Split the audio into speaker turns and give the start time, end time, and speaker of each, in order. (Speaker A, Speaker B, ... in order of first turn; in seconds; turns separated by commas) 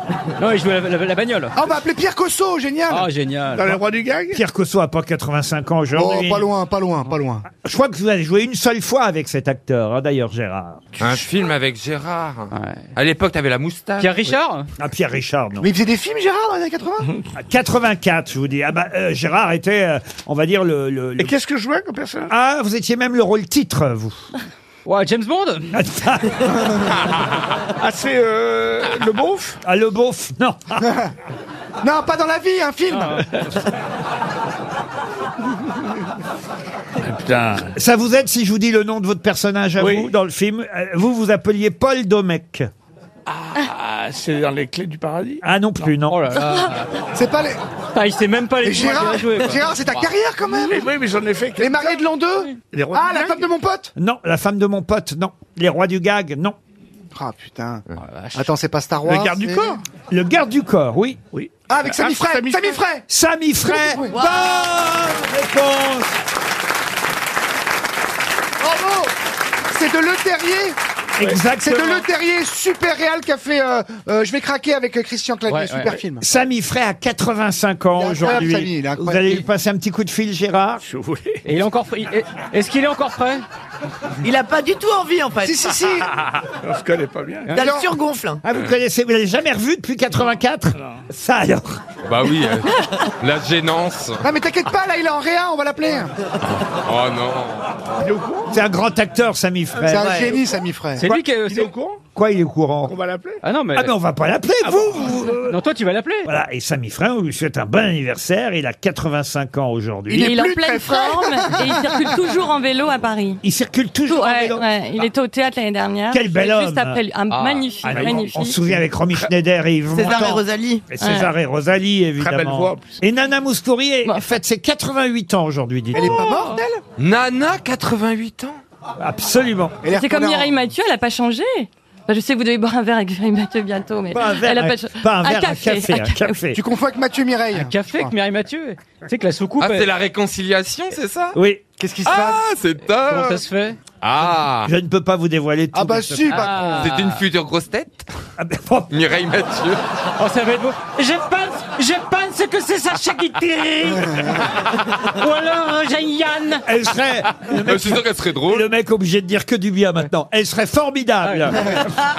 Speaker A: 0.4-1.6, Speaker B: 1.6-3.1, Speaker A: 2.9-3.8, Speaker C: 3.5-4.4, Speaker D: 4.3-6.5, Speaker B: 5.9-7.5, Speaker D: 7.5-10.8, Speaker E: 11.0-14.3, Speaker A: 12.5-12.9, Speaker A: 14.0-14.7, Speaker D: 14.8-15.7, Speaker B: 15.6-17.1, Speaker D: 17.3-21.3, Speaker C: 21.2-22.3, Speaker D: 22.3-24.2, Speaker A: 24.8-25.8, Speaker D: 25.7-26.9, Speaker B: 26.5-26.8, Speaker C: 27.8-29.6, Speaker D: 29.6-30.9, Speaker B: 31.8-33.2, Speaker A: 32.9-33.4, Speaker C: 37.0-37.7, Speaker D: 37.7-42.7, Speaker C: 39.8-40.1, Speaker C: 43.3-45.4, Speaker D: 45.4-46.3, Speaker A: 46.0-46.9, Speaker B: 47.1-47.6, Speaker A: 47.9-50.0, Speaker B: 48.6-50.9, Speaker C: 50.5-52.0, Speaker B: 51.6-53.9, Speaker C: 52.7-53.5, Speaker D: 54.0-56.5, Speaker B: 57.1-57.8, Speaker A: 58.0-58.5, Speaker B: 58.4-59.8, Speaker C: 59.0-59.8, Speaker D: 60.1-61.2, Speaker C: 61.3-62.8, Speaker B: 61.7-63.0, Speaker D: 63.1-66.2, Speaker B: 63.7-64.2, Speaker F: 64.1-64.6, Speaker B: 68.6-69.1, Speaker B: 69.7-70.8, Speaker D: 71.2-72.0, Speaker B: 71.4-76.2, Speaker A: 75.5-76.0, Speaker D: 76.2-80.8, Speaker B: 78.0-79.4, Speaker C: 80.8-81.4, Speaker A: 81.4-83.4, Speaker F: 84.2-85.8, Speaker B: 85.4-86.1, Speaker C: 86.6-87.6, Speaker F: 87.5-88.4, Speaker B: 87.5-88.0, Speaker D: 88.4-91.8, Speaker E: 92.0-94.2, Speaker B: 94.2-96.1, Speaker E: 96.5-97.7, Speaker C: 98.0-98.5, Speaker D: 98.5-100.3, Speaker B: 99.8-101.0, Speaker A: 101.0-101.7, Speaker C: 101.0-102.0, Speaker D: 102.1-102.9, Speaker C: 102.8-103.4, Speaker A: 103.4-103.9, Speaker D: 103.7-105.6, Speaker C: 104.6-105.3, Speaker A: 105.4-106.3, Speaker D: 106.2-110.4, Speaker B: 110.1-112.0, Speaker G: 110.2-113.4, Speaker D: 113.4-115.0, Speaker G: 114.1-118.6, Speaker D: 116.1-117.0, Speaker C: 117.3-118.3, Speaker D: 117.8-126.4, Speaker F: 119.9-120.8, Speaker G: 121.0-121.3, Speaker C: 122.2-123.0, Speaker B: 125.9-126.8, Speaker E: 127.0-128.6, Speaker D: 129.0-129.8, Speaker B: 129.8-130.5, Speaker G: 129.9-136.4, Speaker D: 134.1-136.6, Speaker B: 136.6-138.1, Speaker A: 137.5-139.9, Speaker E: 139.6-141.3, Speaker D: 141.3-141.6, Speaker B: 141.8-142.4, Speaker E: 142.0-143.4, Speaker A: 143.0-143.8, Speaker E: 144.0-144.7, Speaker D: 144.6-146.5, Speaker B: 145.7-146.8, Speaker A: 146.3-147.1, Speaker E: 146.6-148.1, Speaker D: 148.4-148.9, Speaker E: 148.9-149.8, Speaker A: 150.2-156.6, Speaker B: 154.0-154.4, Speaker D: 156.6-161.8, Speaker E: 157.4-158.7, Speaker A: 161.2-161.6